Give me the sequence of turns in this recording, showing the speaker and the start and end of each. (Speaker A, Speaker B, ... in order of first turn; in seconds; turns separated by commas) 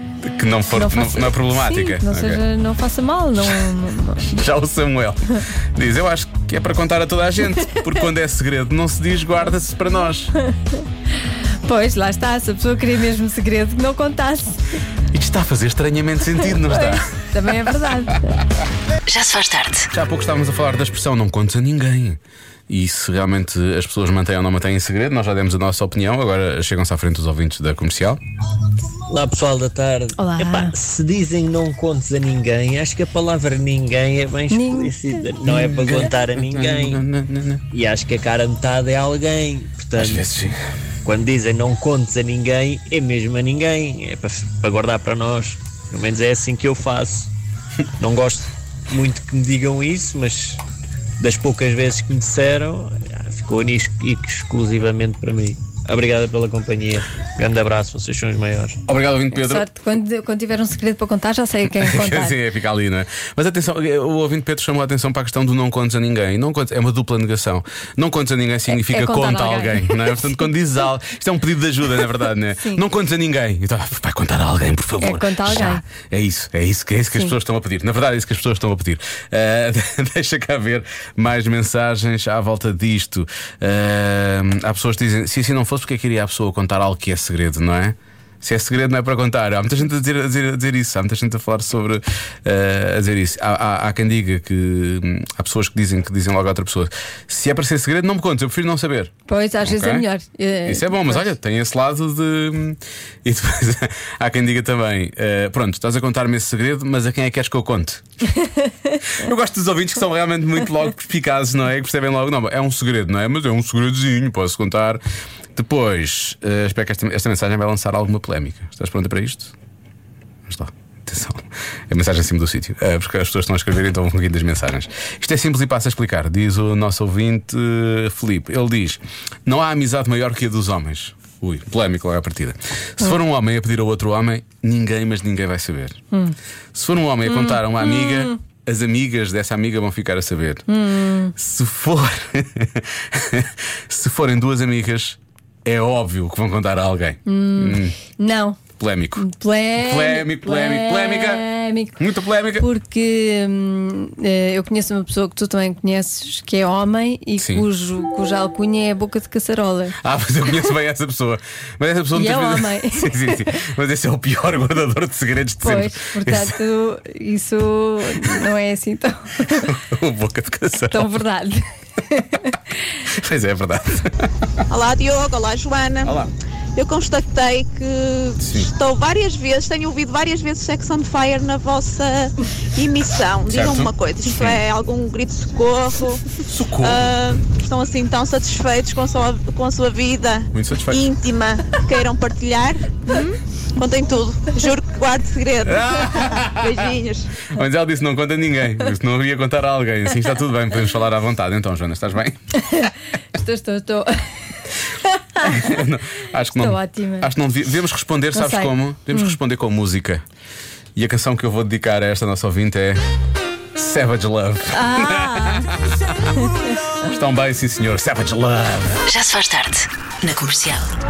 Speaker A: 0.2-2.4, Speaker B: 0.7-4.3, Speaker A: 3.5-10.3, Speaker B: 10.5-10.8, Speaker B: 11.6-14.6, Speaker A: 15.1-17.1, Speaker B: 16.4-18.4, Speaker C: 19.1-19.9, Speaker A: 19.9-28.2, Speaker D: 28.9-37.0, Speaker B: 30.2-30.8, Speaker B: 34.5-35.2, Speaker A: 35.5-37.6, Speaker D: 37.7-40.3, Speaker A: 40.0-40.6, Speaker D: 41.0-47.3, Speaker D: 48.0-50.6, Speaker D: 51.2-58.8, Speaker A: 58.9-59.7, Speaker B: 59.4-62.4, Speaker A: 61.7-100.1, Speaker B: 68.7-70.2, Speaker B: 75.0-75.8, Speaker B: 99.3-101.3, Speaker A: 100.7-108.0, Speaker B: 108.4-109.0, Speaker A: 109.1-115.0, Speaker A: 115.5-119.5, Speaker A: 120.5-136.0, Speaker A: 136.7-140.7, Speaker B: 137.2-138.4, Speaker B: 140.7-141.3, Speaker A: 141.4-148.0, Speaker B: 147.3-148.6, Speaker A: 148.8-151.5, Speaker B: 149.2-152.0, Speaker A: 152.0-152.7, Speaker B: 152.6-160.0, Speaker A: 157.4-157.7, Speaker A: 160.0-166.6, Speaker B: 162.1-163.6, Speaker B: 165.6-169.7, Speaker A: 169.4-171.2, Speaker B: 170.9-172.6, Speaker A: 173.1-174.7, Speaker E: 174.7-176.2, Speaker A: 176.0-176.3, Speaker E: 176.8-197.4, Speaker A: 178.4-178.7, Speaker A: 183.5-184.6, Speaker A: 186.4-187.2, Speaker A: 190.5-191.0, Speaker A: 195.6-196.9, Speaker A: 197.5-202.4, Speaker B: 202.6-204.3, Speaker B: 205.0-205.8, Speaker A: 205.4-210.2, Speaker B: 206.5-207.3, Speaker B: 208.3-209.4, Speaker A: 210.9-213.0, Speaker A: 213.8-219.1, Speaker B: 214.7-215.7, Speaker C: 219.1-220.9